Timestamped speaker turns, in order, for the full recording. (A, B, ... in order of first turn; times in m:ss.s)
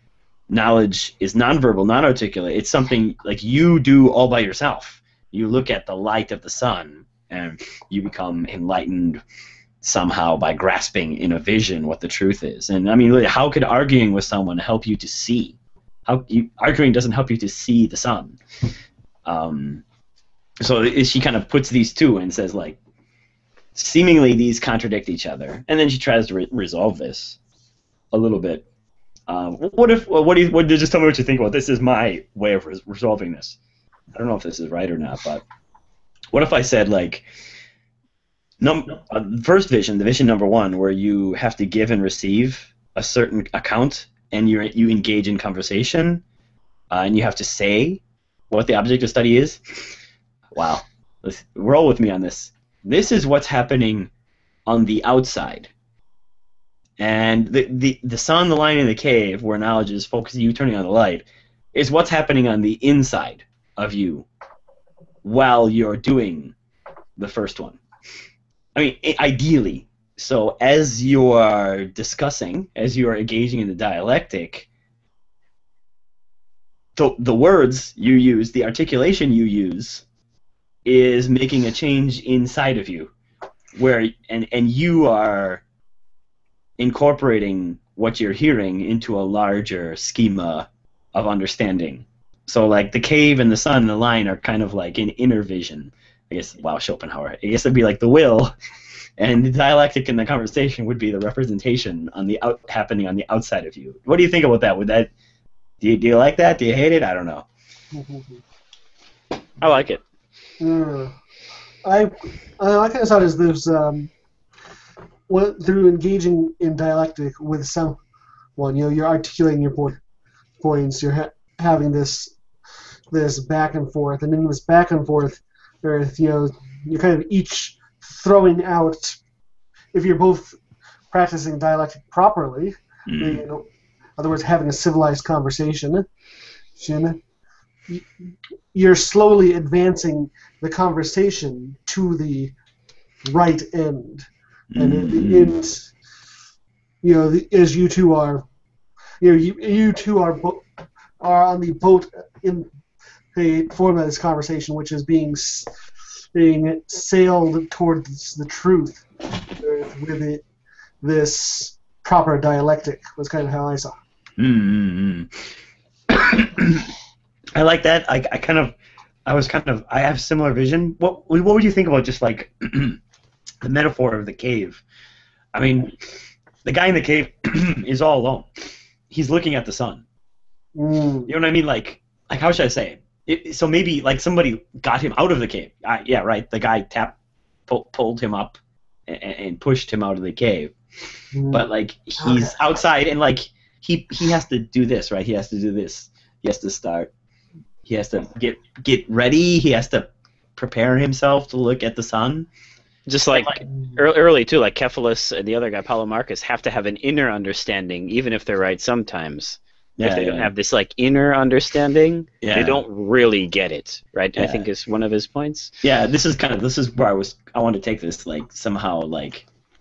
0:00.5-0:09.2 A
0:09.8-0:18.4 A
0:19.2-0:19.8 A
0:20.6-0:22.8 A
0:23.7-0:27.4 A
0:28.1-0:28.6 A
0:29.3-0:33.6 A
0:34.1-0:35.4 A
0:36.3-0:37.2 A
0:38.6-0:46.2 A
0:46.9-0:49.6 A
0:50.5-0:54.1 A
0:54.7-0:55.7 A
0:57.0-1:04.3 A
1:05.2-1:06.5 A
1:07.2-1:07.8 A
1:08.7-1:14.7 A
1:17.0-1:20.0 A
1:20.8-1:23.1 A
1:23.7-1:25.6 A
1:26.8-1:38.5 A
1:39.2-1:45.1 A
1:45.8-1:47.4 A
1:47.9-1:48.4 B
1:49.6-1:50.0 C
1:50.6-1:51.1 B
1:51.8-1:54.1 B
1:55.3-1:58.0 B
1:58.6-2:00.0 B
2:00.6-2:02.3 B
2:03.1-2:09.2 B
2:09.9-2:10.6 B
2:11.1-2:13.6 B
2:13.1-2:13.4 A
2:14.2-2:16.0 B
2:16.8-2:17.2 B
2:18.7-2:22.5 B
2:23.2-2:25.9 B
2:24.7-2:25.5 A
2:27.0-2:28.4 B
2:29.2-2:30.6 B
2:31.2-2:32.7 B
2:33.3-2:35.7 B
2:36.3-2:39.0 B
2:39.6-2:40.4 B
2:41.0-2:44.0 B
2:44.4-2:45.4 A
2:46.1-2:46.9 A
2:47.6-2:48.7 A
2:49.2-2:53.0 A
2:53.6-2:54.8 A
2:55.5-2:55.9 A
2:56.6-2:58.5 A
2:59.1-3:00.0 A
3:00.8-3:01.3 B
3:01.3-3:07.2 A
3:07.7-3:10.7 A
3:11.3-3:11.6 B
3:11.5-3:17.1 A
3:17.9-3:22.5 A
3:23.1-3:35.7 C
3:23.3-3:23.6 A
3:30.0-3:30.5 A
3:32.4-3:32.8 A
3:34.4-3:34.6 A
3:35.8-3:39.4 A